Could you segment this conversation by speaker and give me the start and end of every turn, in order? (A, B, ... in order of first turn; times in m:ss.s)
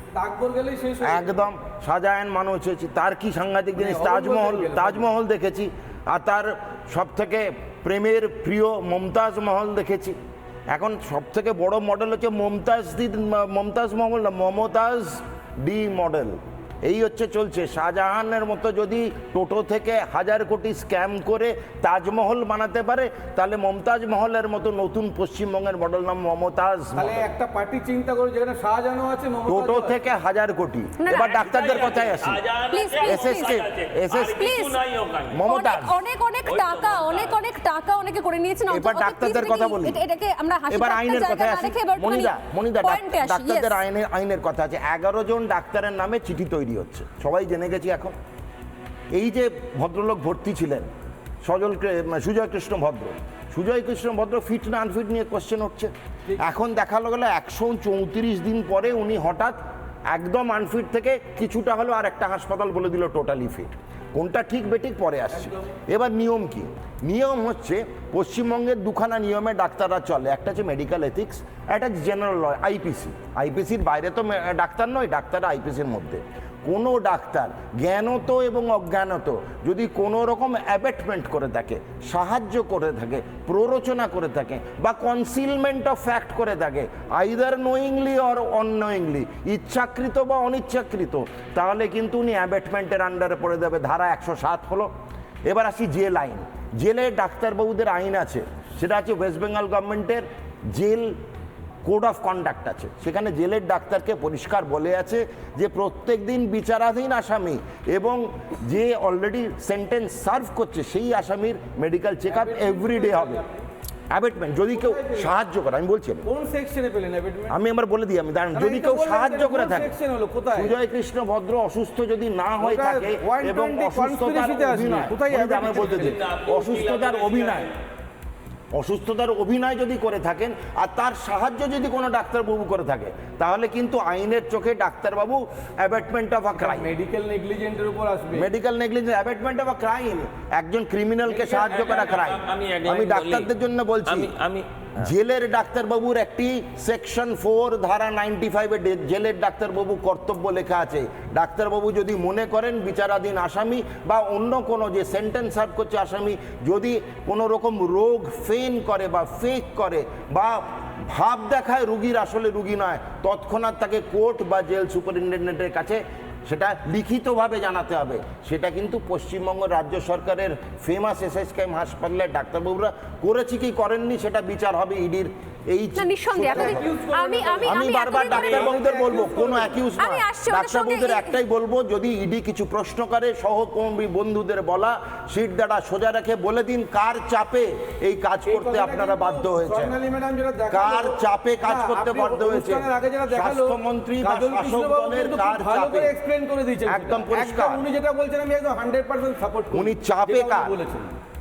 0:00.2-0:01.5 A
0:01.0-0:10.2 B
0:03.8-0:05.1 A
0:10.7-0:27.3 B
0:27.0-0:30.0 A
0:29.5-0:32.4 B
0:31.0-0:31.4 C
0:31.2-0:35.4 D
0:32.7-0:33.6 C
0:33.0-0:34.5 B
0:34.3-0:34.8 C
0:35.3-0:36.0 B
0:35.4-0:43.8 C
0:36.5-0:37.4 D
0:38.7-0:40.0 B
0:40.7-0:48.2 B
0:49.1-0:50.9 B
0:51.4-0:59.6 B
1:00.1-1:34.9 B
1:35.5-1:41.2 B
1:41.8-1:53.4 B
1:52.3-1:53.6 A
1:54.1-1:56.2 B
1:54.7-1:55.3 A
1:56.3-1:57.6 A
1:57.5-1:59.9 B
1:58.5-2:00.8 A
2:00.6-2:07.7 B
2:02.6-2:06.3 A
2:05.7-2:07.8 D
2:08.7-2:16.9 B
2:16.5-2:18.5 A
2:18.3-2:24.4 B
2:21.3-2:22.4 A
2:21.6-2:23.5 D
2:24.0-2:24.7 D
2:25.0-2:56.8 B
2:56.0-2:58.8 C
2:56.5-2:59.8 A
2:57.6-3:10.0 B
3:00.0-3:01.4 C
3:08.5-3:21.2 A
3:10.7-3:16.1 B
3:16.9-3:17.8 B
3:19.7-3:20.8 B